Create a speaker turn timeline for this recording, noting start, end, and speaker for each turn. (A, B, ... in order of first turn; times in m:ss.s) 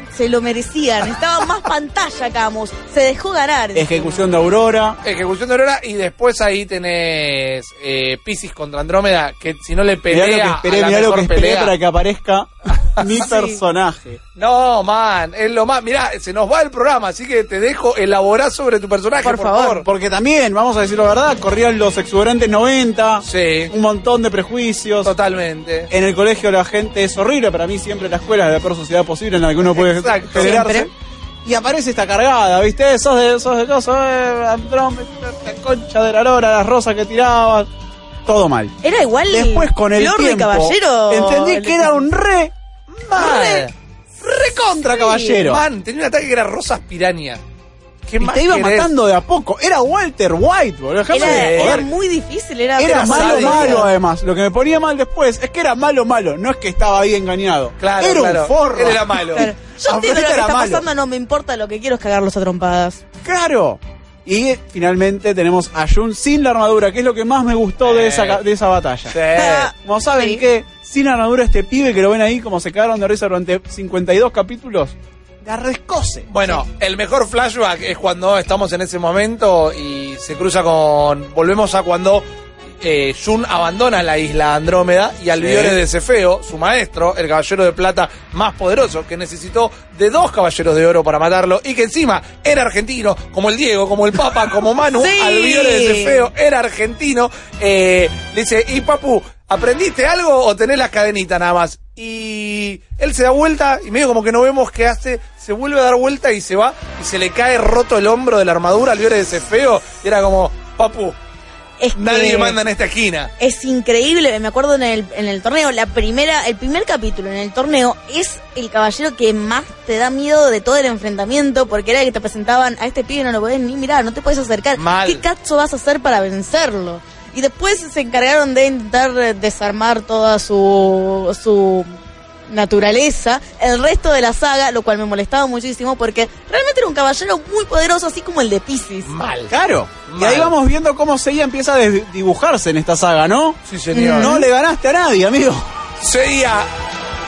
0:00.1-0:04.3 A
0:03.8-0:05.0 B
0:05.0-0:11.7 C
0:10.1-0:14.2 B
0:12.7-0:13.2 C
0:13.2-0:13.6 A
0:14.4-0:19.9 C
0:19.2-0:19.8 A
0:19.8-0:25.1 B
0:23.2-0:23.7 C
0:25.0-0:25.9 C
0:25.9-0:30.9 B
0:29.7-0:30.7 C
0:30.4-0:30.9 A
0:31.4-0:37.7 B
0:38.3-0:38.8 B
0:38.8-0:42.1 A
0:39.3-0:42.5 B
0:42.9-0:43.7 C
0:43.2-0:43.7 B
0:43.2-0:43.5 A
0:44.2-0:45.6 B
0:44.6-0:45.5 A
0:45.4-0:47.4 C
0:48.1-0:48.9 C
0:48.2-0:51.9 B
0:51.1-0:53.9 A
0:51.1-0:51.9 C
0:52.8-1:00.8 B
0:52.9-0:53.9 C
0:57.8-0:59.5 C
0:59.3-1:03.0 A
1:03.2-1:16.3 B
1:07.8-1:08.4 C
1:09.1-1:09.7 C
1:09.3-1:10.4 A
1:16.3-1:22.3 C
1:22.8-1:51.2 C
1:25.4-1:25.8 B
1:35.0-1:36.3 A
1:51.8-1:52.6 A
1:51.9-1:53.3 C
1:53.4-2:11.9 A
2:04.8-2:05.2 C
2:12.5-2:19.1 A
2:19.0-2:19.5 C
2:19.5-2:25.7 B
2:20.1-2:20.5 C
2:23.7-2:24.3 C
2:23.9-2:24.5 A
2:26.0-2:26.7 C